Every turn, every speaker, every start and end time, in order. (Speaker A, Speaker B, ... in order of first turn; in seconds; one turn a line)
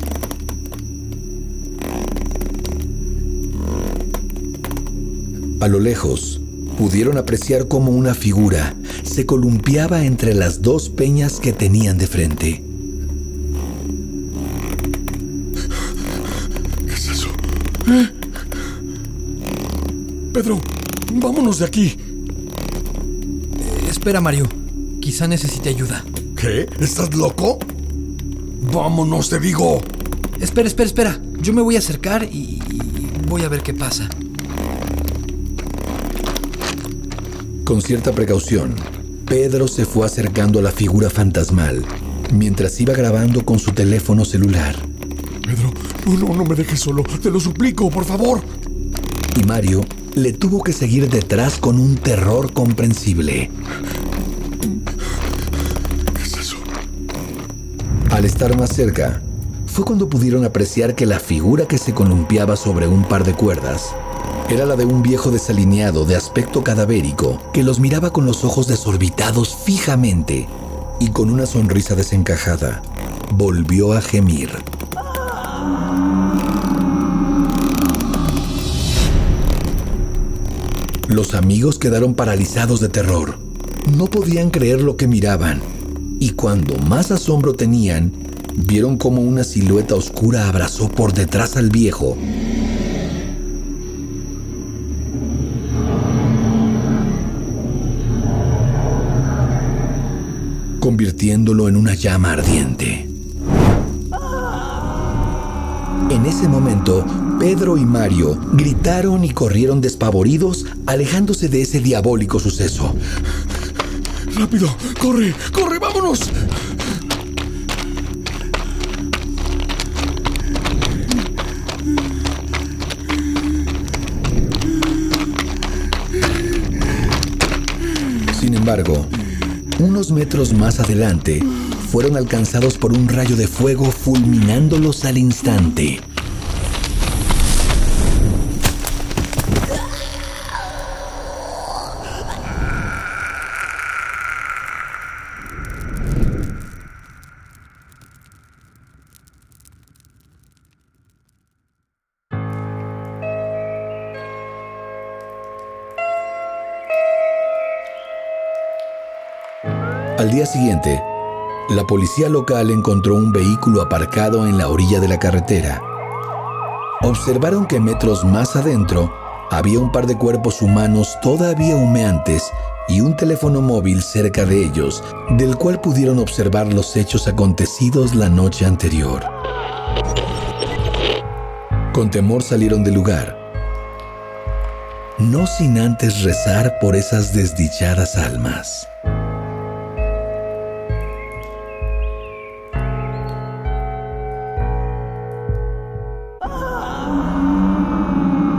Speaker A: 5.6-12.6
Speaker B: 16.9-18.1
Speaker B: 20.3-22.0
Speaker C: 23.6-26.1
Speaker B: 26.4-27.6
Speaker B: 28.6-29.9
Speaker C: 30.4-34.1
Speaker A: 37.6-44.9
Speaker B: 45.5-48.5
Speaker A: 49.3-53.5
Speaker B: 56.2-56.6
Speaker A: 58.1-74.6
Speaker A: 81.1-85.7
Speaker A: 86.2-92.2
Speaker A: 100.8-103.1
Speaker A: 106.1-113.0
Speaker B: 114.3-116.5
Speaker A: 128.3-129.1
Speaker A: 129.8-136.1
Speaker A: 160.2-161.1
Speaker A: 161.7-165.8
Speaker A: 167.0-179.3
Speaker A: 181.9-183.4
Speaker A: 185.2-188.9